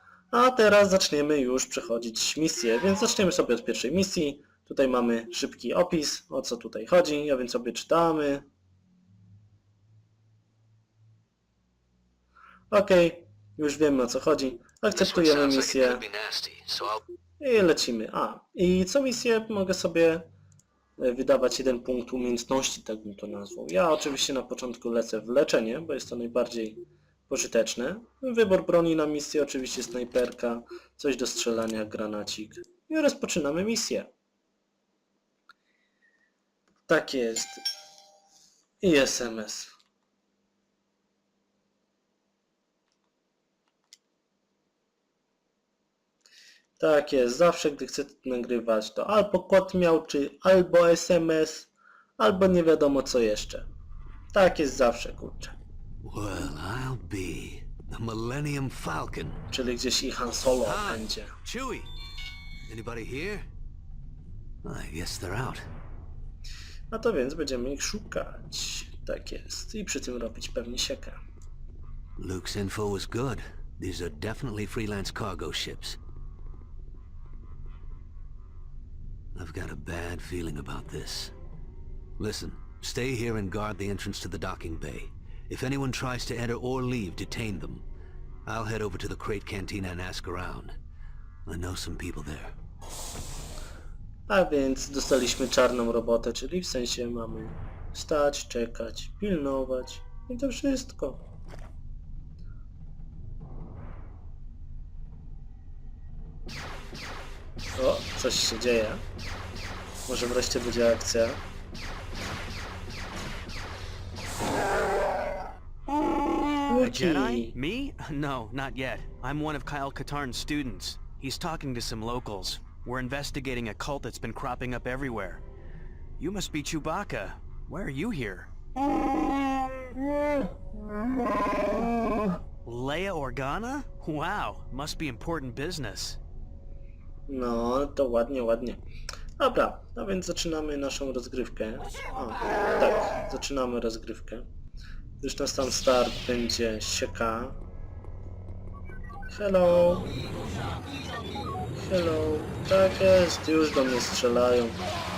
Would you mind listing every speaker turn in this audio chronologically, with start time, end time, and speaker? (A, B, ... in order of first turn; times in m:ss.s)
0:00.3-0:08.4 A
0:12.7-0:16.0 A
0:14.9-0:17.0 B
0:17.4-0:20.3 A
0:21.0-0:34.1 A
0:36.9-0:37.6 A
0:38.8-0:39.7 A
0:46.8-0:53.6 A
0:54.3-0:55.6 A
0:56.0-0:59.4 B
0:59.5-1:01.3 A
1:00.6-1:01.9 B
1:02.7-1:03.4 B
1:04.6-1:05.7 B
1:06.9-1:11.2 A
1:12.2-1:16.0 B
1:19.3-1:21.3 B
1:22.2-1:27.8 B
1:28.4-1:30.8 B
1:31.4-1:32.5 B
1:34.3-1:41.2 A
1:47.8-1:49.0 A
1:50.1-1:51.4 A
1:56.7-1:57.5 A
1:56.8-2:05.4 C
2:06.2-2:08.5 C
2:12.6-2:16.2 C
2:17.3-2:18.8 A
2:19.4-2:24.4 A
2:25.2-2:27.6 A
2:29.3-2:30.2 A
2:31.7-2:34.8 A